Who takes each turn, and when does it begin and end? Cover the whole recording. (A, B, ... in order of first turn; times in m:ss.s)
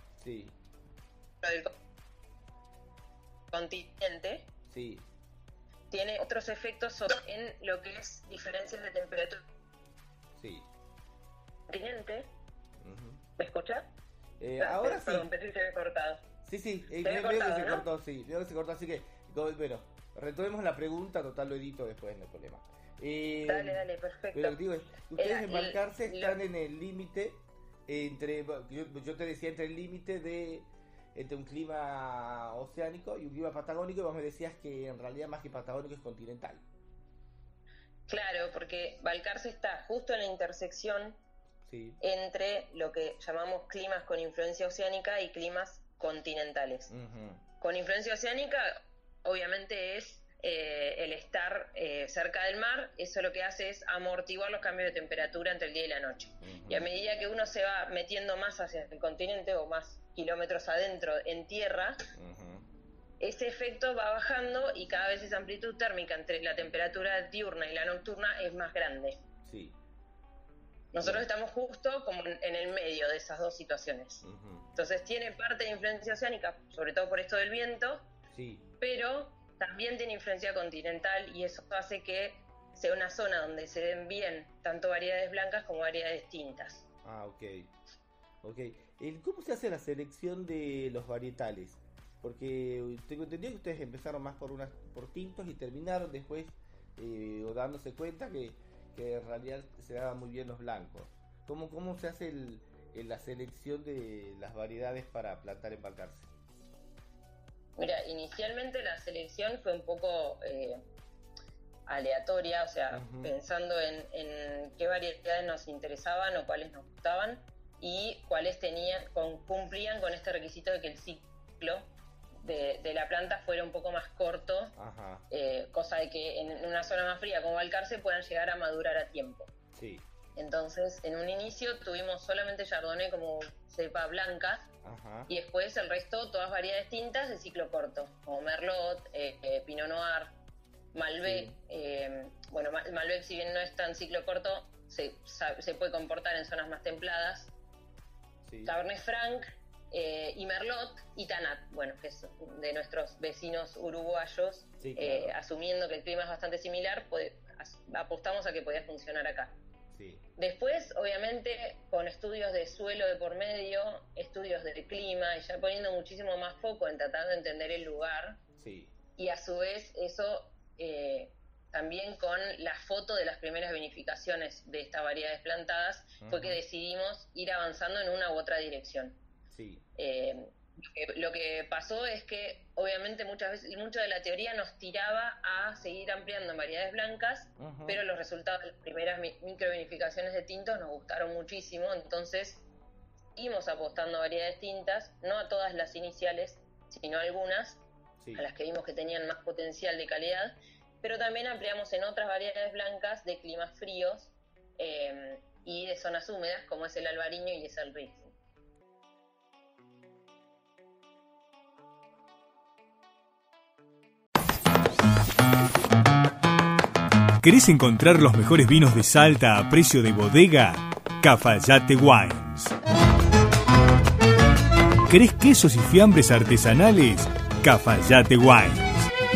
0:00.2-0:00.6 A
0:01.4-0:01.7 B
0:03.5-0:04.5 B
0:04.7-0:05.1 A
0:05.9-0:09.4 B
0:10.3-0:10.7 A
0:11.7-0:12.3 B
0:12.8-0:13.2 A
0:13.4-0:13.9 B
0:14.4-0:15.3 A
0:14.6-0:16.2 B
0:16.4-0:36.6 A
0:17.0-0:17.8 B
0:23.4-0:24.6 B
0:25.1-0:26.4 B
0:38.1-0:41.2 B
0:41.6-0:42.0 A
0:42.0-0:46.9 B
0:46.9-0:47.4 A
0:47.6-1:02.0 B
0:56.4-0:56.9 A
1:02.1-1:02.7 A
1:03.2-1:09.2 B
1:09.4-1:09.8 A
1:10.9-1:18.1 B
1:11.0-1:11.3 A
1:14.2-1:14.7 A
1:18.3-1:18.6 A
1:18.8-1:26.8 B
1:27.0-1:27.7 A
1:28.4-1:46.3 A
1:47.8-1:50.8 B
1:51.9-2:01.9 B
1:52.9-1:53.3 A
2:02.4-2:04.7 B
2:04.8-2:05.2 A
2:05.3-2:09.5 B
2:09.7-2:10.1 A
2:10.4-2:14.7 B
2:14.8-2:15.3 A
2:15.3-2:20.3 B
2:20.9-2:27.5 B
2:21.2-2:21.5 A
2:28.4-2:28.7 A
2:28.6-2:39.5 B
2:34.8-2:35.3 A
2:39.9-2:40.2 A
2:40.4-2:48.4 B
2:48.6-2:48.9 A
2:49.2-2:59.2 B
2:56.2-2:56.6 A
2:59.5-2:59.8 A
3:00.0-3:12.6 B
3:07.6-3:08.0 A
3:13.4-3:17.8 B
3:18.2-3:18.5 A
3:18.3-3:28.2 B
3:37.4-3:42.7 C
3:45.0-3:49.1 C